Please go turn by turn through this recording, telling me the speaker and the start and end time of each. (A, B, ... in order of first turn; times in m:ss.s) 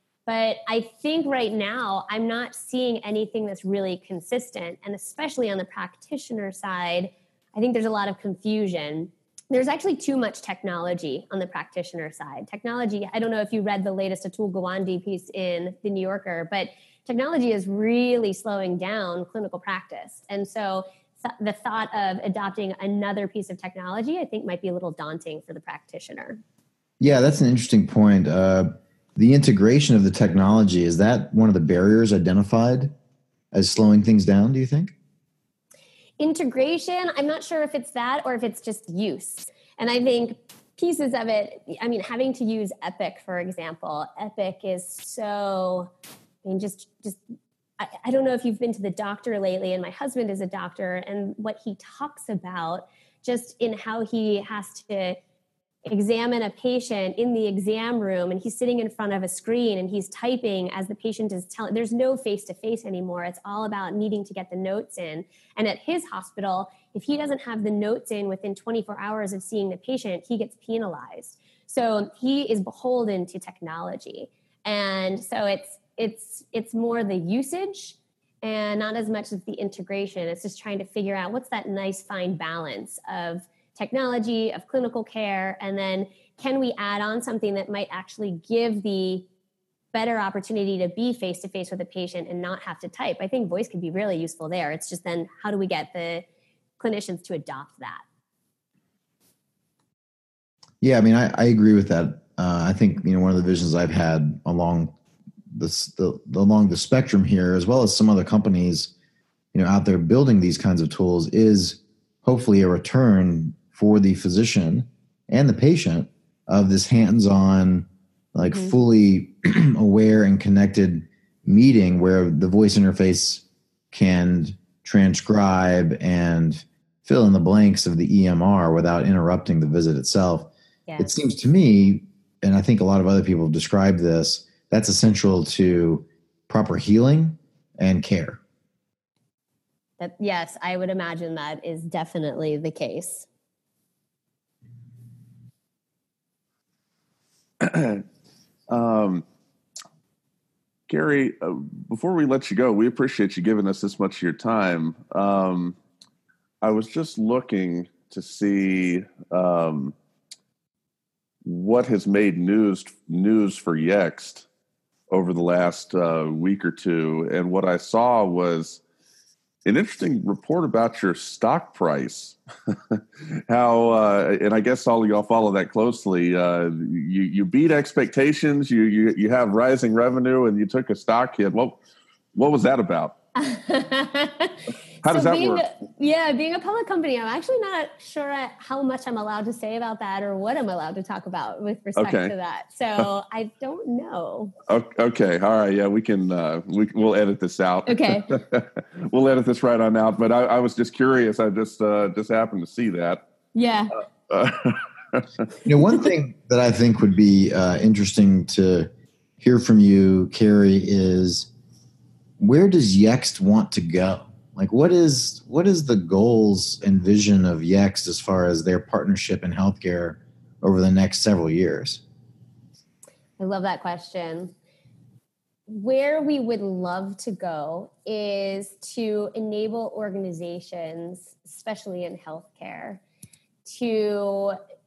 0:00.3-0:26.4 A
0:27.0-0:32.9 B
0:33.5-0:34.9 B
0:36.2-0:45.9 A
0:46.4-0:47.2 A
0:47.8-0:55.2 A
0:55.8-1:29.3 A
1:29.9-1:36.2 A
1:36.8-1:38.0 A
1:40.8-1:44.9 B
1:45.5-1:48.9 B
1:49.5-2:18.4 B
1:58.4-1:58.7 A
2:10.9-2:11.1 A
2:20.0-2:23.3 A
2:27.6-2:28.0 C
2:28.7-2:29.2 C
2:30.9-2:35.8 C
2:36.6-2:39.9 C
2:41.4-2:44.5 C
2:45.1-2:48.8 C
2:49.6-2:52.4 C
2:52.9-3:01.8 C
3:02.3-3:03.2 C
3:03.3-3:14.5 A
3:05.0-3:05.6 C
3:12.0-3:12.3 C
3:14.7-3:23.2 C
3:17.9-3:18.4 A
3:23.5-3:24.0 A
3:24.3-3:25.2 C
3:25.6-3:28.9 B
3:29.4-3:31.5 B
3:32.4-3:42.0 B
3:43.4-3:44.5 A
3:45.7-3:53.0 A
3:53.6-3:54.6 A